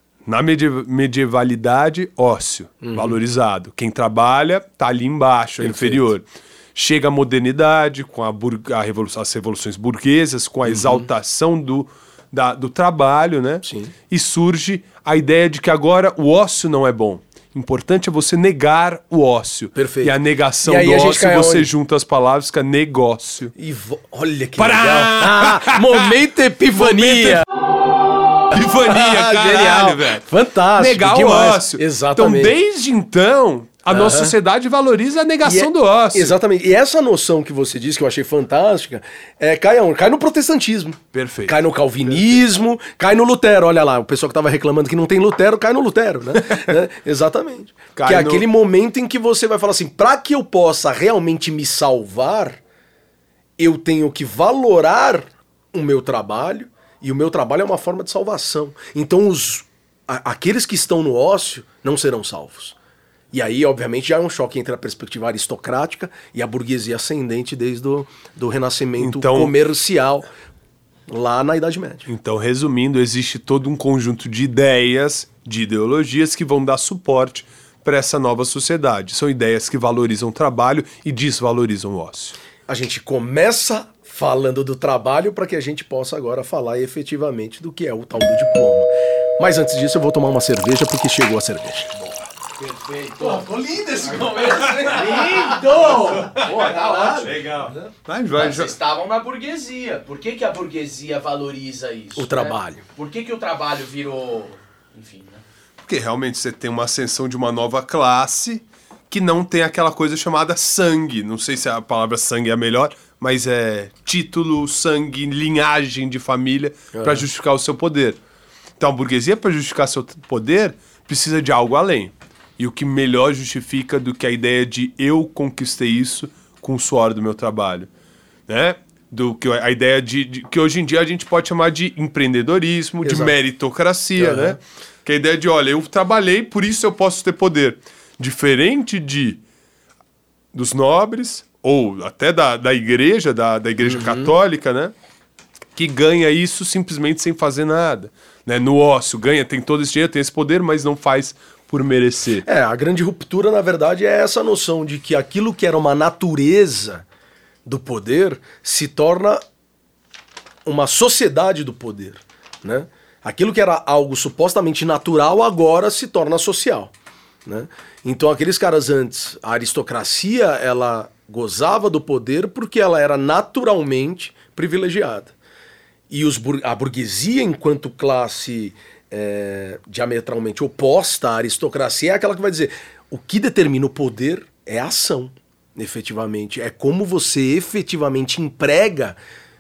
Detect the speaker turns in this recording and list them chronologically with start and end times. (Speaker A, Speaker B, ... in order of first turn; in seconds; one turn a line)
Speaker A: 0.2-23.5
Speaker B: 2.8-3.1
Speaker B: 5.6-6.0
Speaker B: 10.7-11.1
Speaker B: 13.6-13.9
Speaker B: 19.7-20.1
Speaker B: 20.6-21.7
Speaker B: 23.5-27.4
Speaker A: 24.6-26.1
Speaker A: 26.7-27.4
Speaker A: 28.5-30.2
Speaker B: 28.6-32.5
Speaker A: 30.8-36.4
Speaker B: 33.9-34.3
Speaker B: 35.4-52.6
Speaker A: 41.1-41.6
Speaker A: 47.9-48.5
Speaker B: 53.6-62.8
Speaker B: 63.3-70.2
Speaker A: 69.0-69.5
Speaker B: 71.1-72.1
Speaker A: 72.1-82.4
Speaker B: 82.7-91.9
Speaker C: 92.6-97.7
Speaker B: 93.2-97.4
Speaker A: 95.5-98.8
Speaker C: 98.3-105.4
Speaker B: 102.2-102.8
Speaker A: 105.8-118.2
Speaker B: 116.9-117.2
Speaker A: 118.8-127.9
Speaker A: 128.5-139.4
Speaker B: 133.0-133.3
Speaker B: 134.2-134.6
Speaker A: 140.5-144.9
Speaker B: 143.8-144.3
Speaker A: 145.8-152.4
Speaker B: 152.4-157.0
Speaker B: 157.7-159.4
Speaker B: 160.6-166.9
Speaker B: 167.4-175.3
Speaker B: 176.1-189.2